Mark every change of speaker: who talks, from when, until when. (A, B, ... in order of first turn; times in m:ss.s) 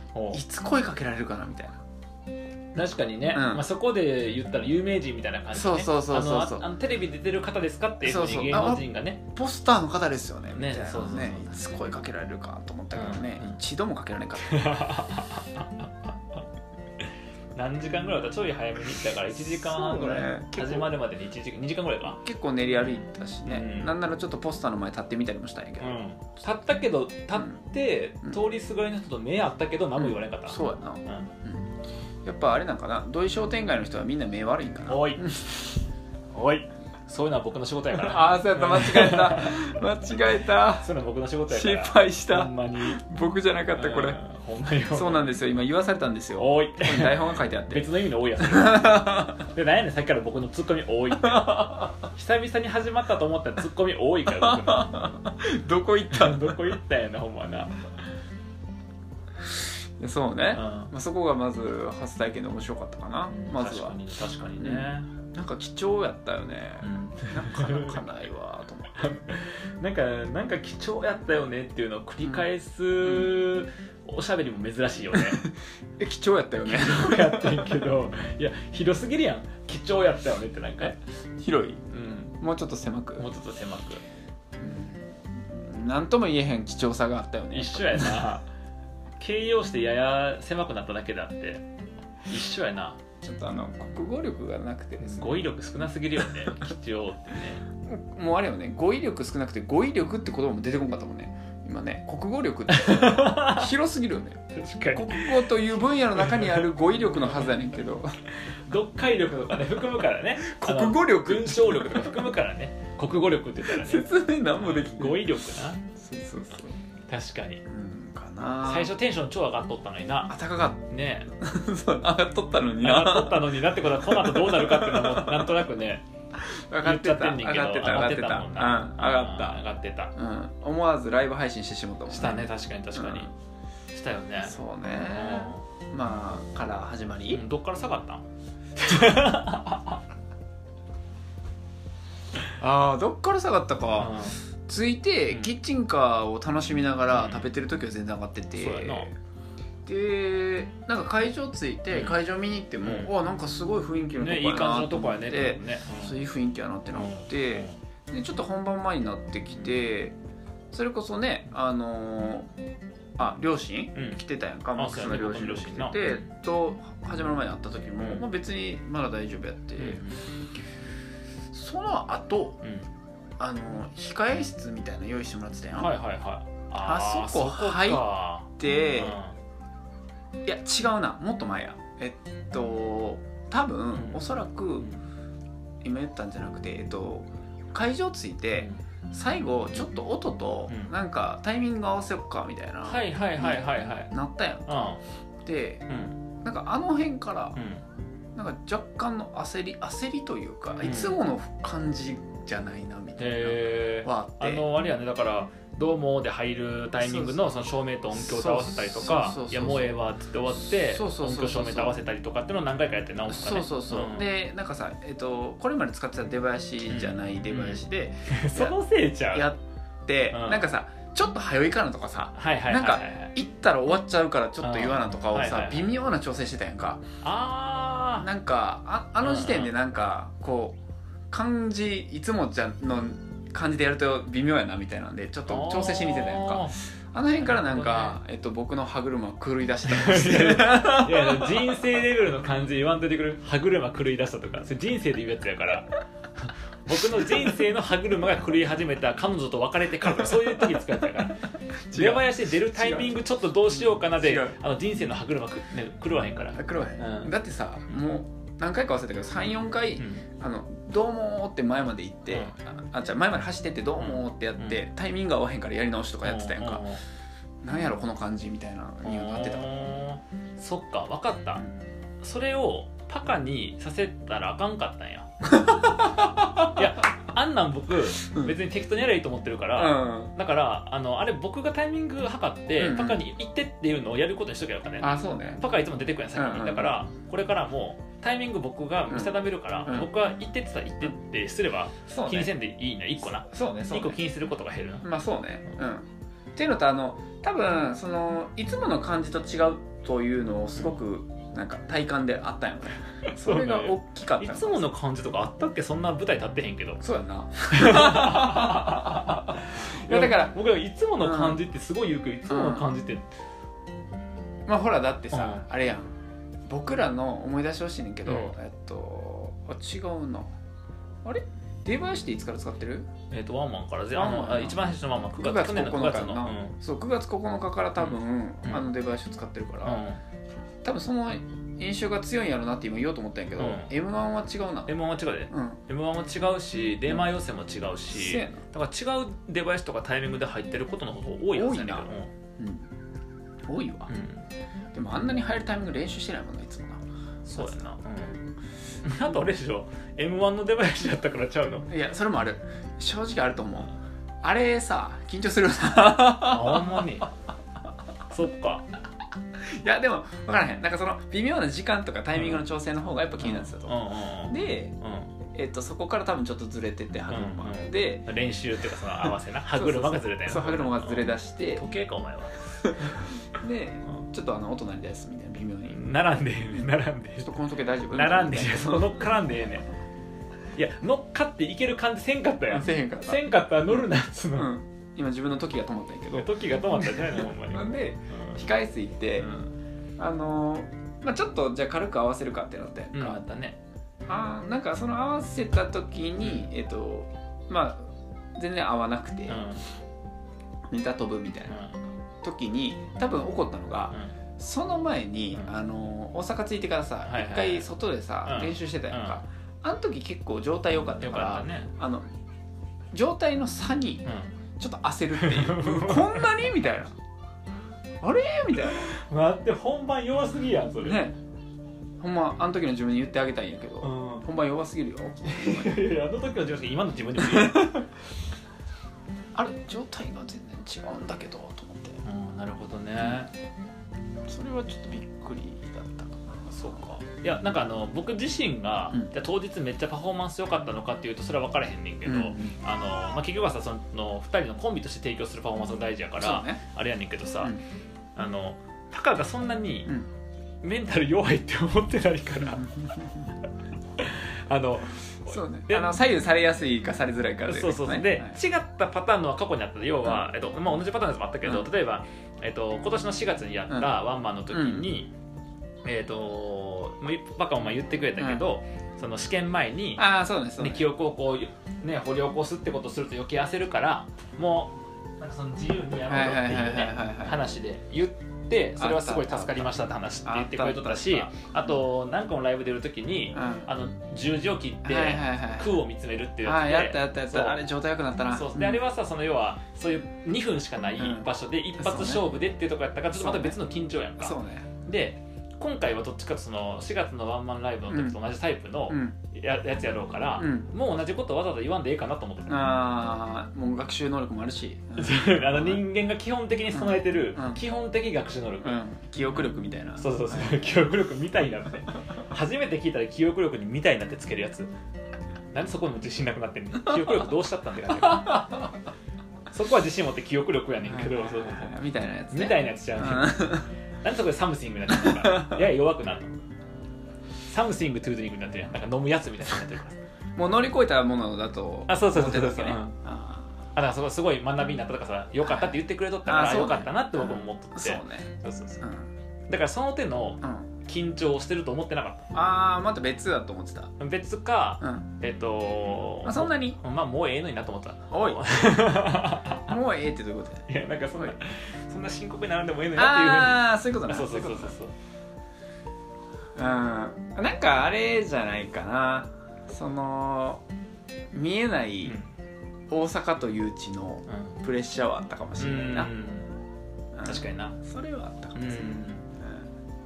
0:00.1-0:00.4 A
0:00.3-0:01.8 B
0:02.7-0:09.2 A
0:03.3-0:03.6 B
0:05.5-0:06.7 B
0:08.0-0:14.9 B
0:10.5-0:11.8 A
0:12.9-0:13.6 A
0:14.5-0:15.9 A
0:17.5-0:22.2 A
0:19.3-0:20.9 B
0:22.2-0:26.0 B
0:22.8-0:24.0 A
0:25.8-0:31.3 A
0:27.3-0:27.6 B
0:30.0-0:31.7 B
0:32.2-0:35.7 B
0:34.9-0:35.3 A
0:36.3-0:39.7 A
0:37.9-0:40.9 B
0:40.8-0:43.0 A
0:41.5-0:44.2 B
0:43.7-0:45.3 A
0:44.9-0:49.5 B
0:46.4-0:54.9 A
0:51.2-0:51.9 B
0:54.3-0:56.8 B
0:56.1-0:57.8 A
0:59.5-1:04.0 B
1:00.5-1:00.9 A
1:03.3-1:05.1 A
1:04.6-1:09.1 B
1:06.8-1:08.0 A
1:09.0-1:15.4 A
1:12.2-1:12.5 B
1:13.0-1:13.3 B
1:15.1-1:15.5 B
1:16.0-1:17.9 B
1:16.7-1:21.0 A
1:20.8-1:21.8 B
1:21.9-1:22.3 A
1:22.4-1:23.3 B
1:23.2-1:24.0 A
1:24.6-1:28.3 B
1:27.5-1:28.4 A
1:29.2-1:31.6 A
1:32.3-1:33.0 A
1:33.2-1:36.3 B
1:35.0-1:37.6 A
1:37.8-1:44.4 B
1:42.7-1:43.7 A
1:44.5-1:47.6 A
1:44.9-1:48.1 B
1:48.5-1:55.8 A
1:50.4-1:52.4 B
1:53.6-1:55.3 B
1:55.9-1:56.7 B
1:57.1-1:57.6 A
1:57.7-1:58.9 B
1:58.6-2:01.3 A
2:00.3-2:05.6 B
2:02.8-2:06.0 A
2:06.4-2:09.6 B
2:06.8-2:10.1 A
2:10.1-2:13.3 B
2:12.1-2:13.3 A
2:13.9-2:15.6 A
2:14.4-2:17.4 B
2:17.3-2:18.2 A
2:18.8-2:20.0 A
2:22.6-2:29.1 B
2:24.0-2:24.4 A
2:25.3-2:25.5 A
2:27.1-2:27.5 A
2:28.5-2:29.1 A
2:29.8-2:40.2 B
2:31.9-2:32.2 A
2:32.8-2:33.1 A
2:34.2-2:36.2 A
2:36.9-2:37.8 A
2:40.7-2:42.5 B
2:43.2-2:50.2 B
2:43.9-2:44.2 A
2:44.8-2:46.3 A
2:48.0-2:48.2 A
2:49.8-2:50.2 A
2:51.5-2:52.6 B
2:52.6-2:52.9 A
2:53.4-2:55.9 B
2:55.8-2:59.4 A
2:56.7-2:58.0 B
2:58.6-2:59.2 B
3:00.4-3:04.9 B
3:03.9-3:04.2 A
3:05.8-3:17.6 B
3:08.6-3:08.8 A
3:12.8-3:14.1 A
3:14.7-3:15.0 A
3:15.9-3:16.2 A
3:17.6-3:17.8 A
3:18.3-3:24.6 B
3:20.8-3:21.2 A
3:23.2-3:34.3 A
3:27.0-3:27.4 B
3:28.1-3:29.9 B
3:30.6-3:31.9 B
3:33.3-3:47.0 B
3:36.9-3:39.5 A
3:40.3-3:40.7 A
3:42.3-3:43.3 A
3:44.6-3:45.9 A
3:47.2-3:48.3 A
3:48.2-3:50.8 B
3:49.2-3:49.7 A
3:51.3-4:01.8 B
3:55.5-3:56.8 A
3:57.4-3:58.2 A
3:59.9-4:17.3 A
4:06.9-4:07.6 B
4:11.9-4:14.6 B
4:16.5-4:26.8 B
4:20.0-4:20.2 A
4:22.3-4:22.5 A
4:24.0-4:24.8 A
4:26.2-4:27.0 A
4:27.6-4:29.7 B
4:29.0-4:31.6 A
4:32.2-4:36.0 A
4:35.5-4:36.7 B
4:36.6-4:55.1 A
4:38.2-4:38.6 B
4:39.7-4:40.3 B
4:42.8-4:43.3 B
4:45.0-4:45.6 B
4:46.3-4:47.0 B
4:49.1-4:50.1 B
4:52.1-4:52.6 B
4:53.2-4:54.2 B
4:55.0-5:04.9 B
5:03.3-5:07.0 A
5:07.0-5:10.6 B
5:07.7-5:13.2 A
5:11.2-5:11.6 B
5:12.5-5:12.9 B
5:14.7-5:16.1 B
5:15.3-5:15.6 A
5:16.7-5:20.5 B
5:18.2-5:18.5 A
5:21.2-5:23.1 B
5:23.3-5:26.8 A
5:24.1-5:30.0 B
5:28.0-5:28.9 A
5:29.8-5:30.2 A
5:30.8-5:35.0 B
5:33.6-5:33.9 A
5:34.9-5:42.3 A
5:35.5-5:35.8 B
5:38.1-5:38.6 B
5:41.5-5:42.9 B
5:43.6-5:44.1 B
5:44.1-5:44.4 A
5:44.9-5:47.0 B
5:47.4-5:48.4 A
5:47.5-5:47.8 B
5:49.0-5:51.9 A
5:51.9-5:53.9 B
5:54.4-5:57.2 B
5:56.3-5:57.3 A
5:58.3-5:58.9 A
5:59.7-6:05.0 B
6:02.4-6:02.6 A
6:03.4-6:05.3 A
6:05.5-6:08.3 B
6:07.3-6:12.6 A
6:09.7-6:11.8 B
6:12.8-6:16.0 B
6:15.9-6:17.5 A
6:16.7-6:19.5 B
6:18.1-6:19.8 A
6:20.7-6:24.7 A
6:22.7-6:26.5 B
6:26.3-6:28.6 A
6:27.0-6:29.5 B
6:29.4-6:29.7 A
6:30.2-6:33.4 B
6:33.1-6:33.8 A
6:34.3-6:39.6 B
6:36.4-6:36.6 A
6:39.5-6:39.8 A
6:40.9-6:41.8 B
6:41.7-6:42.0 A
6:42.4-6:52.2 B
6:47.2-6:47.9 A
6:48.4-6:49.4 A
6:51.2-6:51.9 A
6:53.1-6:54.3 B
6:54.2-6:54.5 A
6:54.8-6:57.1 B
6:55.4-6:56.6 A
6:58.2-6:59.1 B
6:59.0-7:01.3 A
7:01.0-7:01.4 B
7:02.2-7:06.1 B
7:04.0-7:04.4 A
7:05.4-7:08.0 A
7:07.4-7:08.0 B
7:09.5-7:12.2 B
7:12.2-7:13.5 A
7:13.2-7:13.5 B
7:14.5-7:17.0 B
7:16.7-7:27.8 A
7:22.2-7:22.8 B
7:26.4-7:26.8 B
7:28.4-7:30.1 A
7:30.8-7:33.0 A
7:32.6-7:33.5 B
7:34.2-7:36.2 A
7:35.4-7:38.6 B
7:37.7-7:45.3 A
7:41.6-7:41.9 B
7:44.7-7:45.1 B
7:46.0-7:50.2 A
7:48.4-7:48.6 B
7:50.2-7:51.1 B
7:50.8-8:07.8 A
7:56.2-7:57.6 B
7:59.0-8:01.8 B
8:03.5-8:03.9 B
8:05.0-8:05.9 B
8:06.6-8:09.0 B
8:08.5-8:23.0 A
8:11.2-8:12.4 B
8:13.4-8:13.8 B
8:14.4-8:14.9 B
8:18.1-8:18.4 B
8:19.1-8:19.4 B
8:20.6-8:20.9 B
8:22.7-8:26.0 B
8:25.2-8:34.9 A
8:26.9-8:27.8 B
8:28.8-8:31.0 B
8:35.7-8:38.9 A
8:39.7-8:42.0 A
8:41.0-8:43.9 B
8:42.5-8:46.5 A
8:45.1-8:45.9 B
8:47.7-8:50.2 A
8:50.6-8:53.7 B
8:52.1-8:53.1 A
8:53.9-8:59.0 A
8:55.6-8:59.3 B
8:59.7-9:02.5 A
9:00.6-9:00.9 B
9:02.5-9:04.1 B
9:04.2-9:09.9 A
9:05.0-9:05.3 B
9:06.4-9:07.0 B
9:08.3-9:08.7 B
9:09.8-9:11.5 B
9:10.9-9:15.1 A
9:13.1-9:14.9 B
9:16.8-9:20.8 B
9:21.5-9:22.4 B
9:22.2-9:22.5 A
9:23.1-9:26.3 B
9:24.5-9:24.8 A
9:25.8-9:26.7 A
9:27.3-9:29.9 B
9:27.4-9:28.0 A
9:28.8-9:29.4 A